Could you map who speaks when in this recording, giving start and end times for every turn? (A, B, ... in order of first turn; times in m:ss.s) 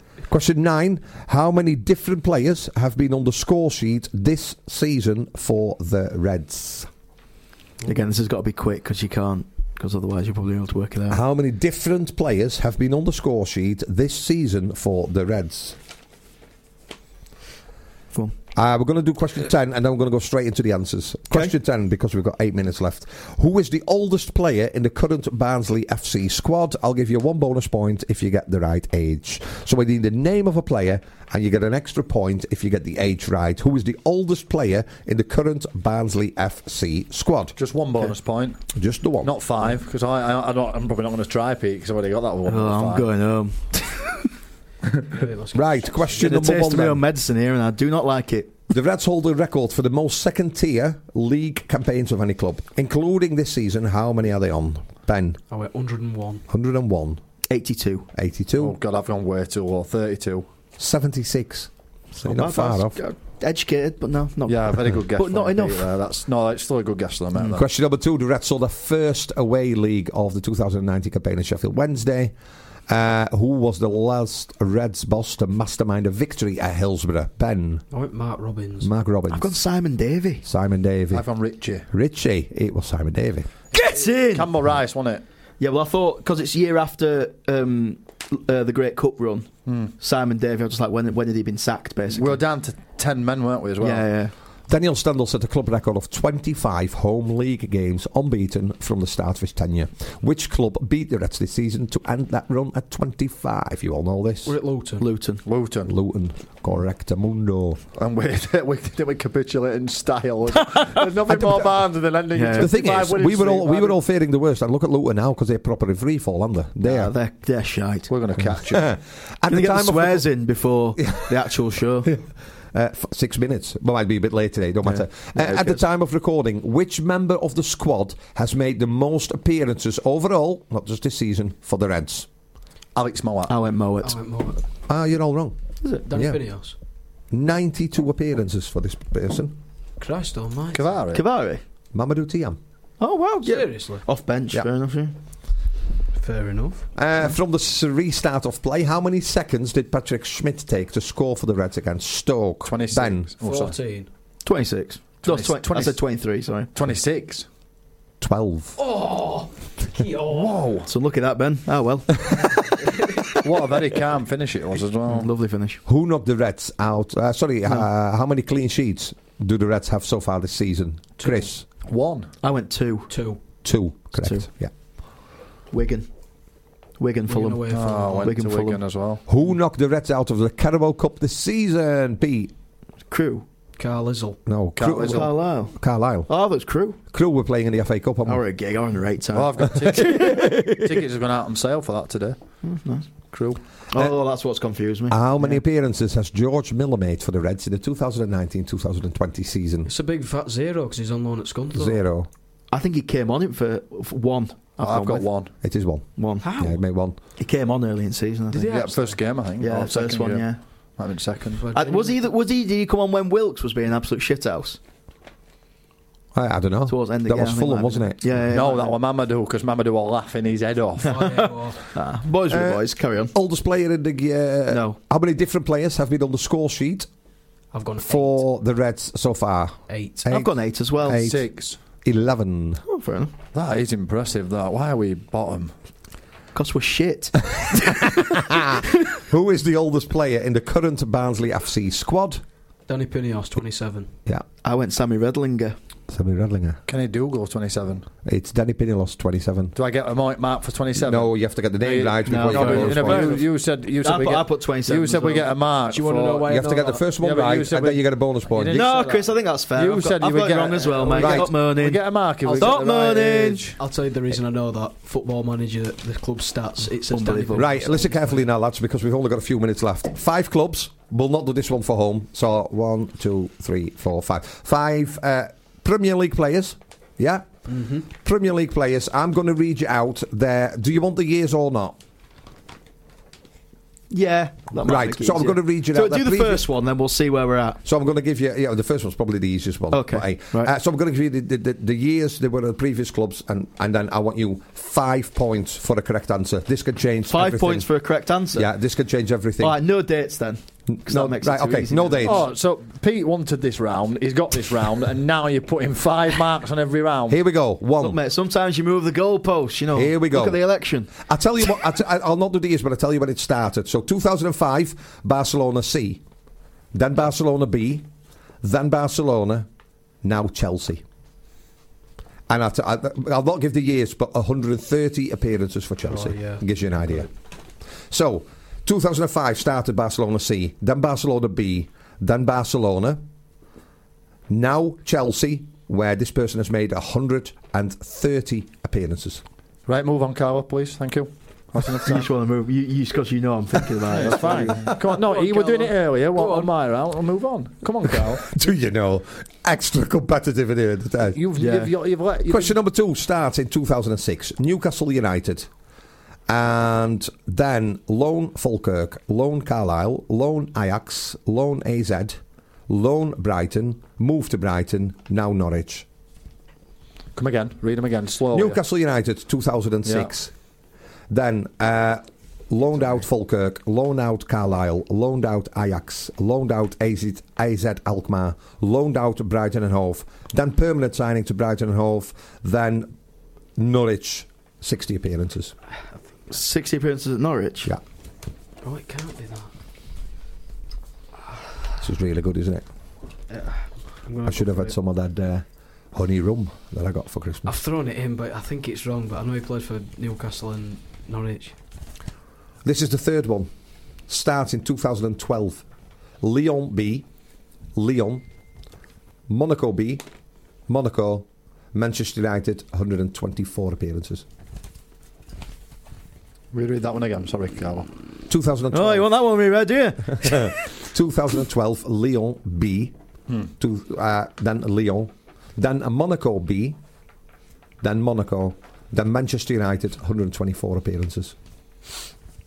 0:00.3-0:06.9 A
0:07.9-0:11.2 B
0:11.1-0:15.8 A
0:18.6-0:37.6 A
0:37.6-0:38.6 C
0:38.7-0:39.3 A
0:39.2-0:43.1 C
0:42.5-0:44.3 B
0:45.1-0:46.5 D
0:45.5-0:47.0 A
0:46.2-0:48.7 B
0:48.7-0:55.4 A
0:55.5-0:56.4 D
0:56.5-0:57.2 A
0:57.5-0:58.1 B
0:58.1-0:58.8 A
0:58.6-1:00.5 C
1:00.8-1:03.0 A
1:02.2-1:05.9 B
1:04.5-1:07.7 C
1:07.6-1:12.3 A
1:12.9-1:17.8 A
1:17.9-1:18.9 D
1:18.8-1:19.6 A
1:19.3-1:20.4 B
1:20.4-1:21.3 A
1:21.1-1:21.9 C
1:21.9-1:23.5 A
1:23.7-1:24.5 B
1:23.9-1:25.2 C
1:25.6-1:32.4 B
1:29.7-1:29.9 C
1:32.1-1:34.0 C
1:33.8-1:34.3 B
1:34.7-1:44.6 A
1:44.4-1:45.1 D
1:45.0-1:45.4 B
1:45.4-1:45.9 C
1:45.9-1:47.8 A
1:48.0-1:54.0 C
1:52.3-1:52.7 B
1:52.6-1:57.1 A
1:56.8-1:58.1 B
1:58.1-1:58.9 C
1:58.5-2:00.2 A
1:59.5-2:02.1 B
2:01.0-2:01.2 A
2:02.7-2:12.3 A
2:04.9-2:05.8 B
2:13.0-2:13.5 C
2:13.5-2:14.2 B
2:14.0-2:14.6 D
2:14.9-2:15.6 A
2:16.1-2:16.8 D
2:16.1-2:16.4 A
2:17.3-2:19.6 A
2:20.0-2:20.9 D
2:20.7-2:21.2 C
2:21.1-2:21.6 B
2:21.9-2:22.6 A
2:23.0-2:25.2 B
2:23.4-2:24.0 D
2:26.2-2:26.8 D
2:27.0-2:33.3 A
2:32.6-2:33.8 C
2:33.4-2:34.1 D
2:34.4-2:36.7 B
2:35.2-2:36.1 C
2:36.7-2:37.5 C
2:38.2-2:38.8 A
2:38.8-2:40.6 D
2:40.3-2:40.9 C
2:40.9-2:42.4 B
2:43.4-2:45.3 C
2:45.1-2:45.8 B
2:45.9-2:51.6 A
2:51.8-2:52.3 C
2:52.4-2:53.1 B
2:53.1-2:53.4 D
2:53.6-2:54.7 A
2:54.2-2:54.5 B
2:55.7-2:56.1 B
2:57.0-2:58.8 B
2:57.3-2:58.3 D
2:57.7-2:59.2 C
2:59.3-3:02.5 A
3:03.1-3:03.4 B
3:03.8-3:04.4 D
3:04.5-3:06.3 A
3:04.8-3:05.3 C
3:05.0-3:07.0 B
3:07.1-3:08.4 A
3:08.3-3:10.5 B
3:09.3-3:12.4 C
3:10.1-3:10.8 A
3:12.6-3:13.1 B
3:13.3-3:13.6 C
3:13.9-3:15.6 B
3:15.1-3:19.9 A
3:19.8-3:22.0 D
3:21.7-3:22.3 A
3:22.7-3:25.2 B
3:24.8-3:25.5 C
3:25.6-3:27.2 A
3:26.2-3:26.8 B
3:27.4-3:28.8 B
3:28.5-3:29.2 D
3:28.6-3:31.6 C
3:29.6-3:30.6 B
3:31.6-3:32.2 D
3:31.7-3:34.8 B
3:36.3-3:38.3 A
3:36.9-3:39.0 B
3:38.5-3:41.3 C
3:41.0-3:41.8 D
3:41.2-3:43.3 B
3:42.5-3:47.1 A
3:44.7-3:45.0 B
3:47.7-3:48.4 D
3:48.0-3:51.5 A
3:49.9-3:50.3 D
3:50.3-3:51.3 B
3:51.1-3:51.8 C
3:52.0-3:52.8 A
3:52.9-3:53.3 B
3:53.5-3:55.7 C
3:56.6-3:58.4 B
3:58.3-4:02.4 A
4:02.9-4:04.1 D
4:04.6-4:05.8 B
4:06.1-4:06.8 A
4:06.9-4:08.1 C
4:08.2-4:09.7 A
4:09.8-4:16.5 C
4:11.0-4:13.4 A
4:12.3-4:13.5 B
4:14.0-4:15.5 B
4:15.9-4:17.1 D
4:16.5-4:18.9 A
4:17.2-4:23.8 C
4:18.7-4:23.7 B
4:21.2-4:21.5 A
4:22.4-4:22.8 D
4:23.8-4:28.4 D
4:27.1-4:27.7 B
4:27.6-4:42.0 A
4:37.7-4:38.0 D
4:44.1-4:47.8 B
4:44.8-4:46.7 A
4:47.8-4:57.9 A
4:49.9-4:50.7 B
4:57.3-4:58.7 B
4:58.5-4:59.8 A
4:59.6-5:02.4 B
5:00.9-5:02.4 A
5:02.2-5:07.4 C
5:07.3-5:08.2 A
5:08.0-5:11.2 B
5:10.0-5:10.6 A
5:11.2-5:16.2 A
5:16.9-5:18.1 A
5:18.6-5:19.7 A
5:20.2-5:21.0 A
5:22.5-5:27.3 A
5:26.0-5:27.2 D
5:28.1-5:33.2 A
5:34.5-5:39.4 A
5:39.9-5:42.3 C
5:42.0-5:45.0 B
5:44.1-5:48.4 C
5:45.1-5:46.7 D
5:48.4-5:51.4 A
5:51.3-5:52.8 C
5:51.6-5:51.9 B
5:52.5-5:55.7 A
5:56.5-6:06.1 A
6:07.4-6:08.8 C
6:08.5-6:10.5 A
6:10.1-6:10.3 C
6:11.3-6:23.1 A
6:23.8-6:25.8 A
6:26.5-6:27.9 B
6:28.8-6:29.7 D
6:32.0-6:32.9 A
6:33.5-6:34.9 D
6:34.4-6:37.7 A
6:37.6-6:41.8 D
6:42.8-6:43.7 A
6:44.3-6:45.8 A
6:46.4-6:47.3 A
6:48.0-6:48.4 A
6:49.5-6:50.2 A
6:50.9-6:54.4 A
6:56.7-6:58.1 C
6:58.5-6:59.3 A
6:58.9-7:00.8 B
7:00.4-7:03.2 A
7:03.8-7:07.0 A
7:08.0-7:11.6 A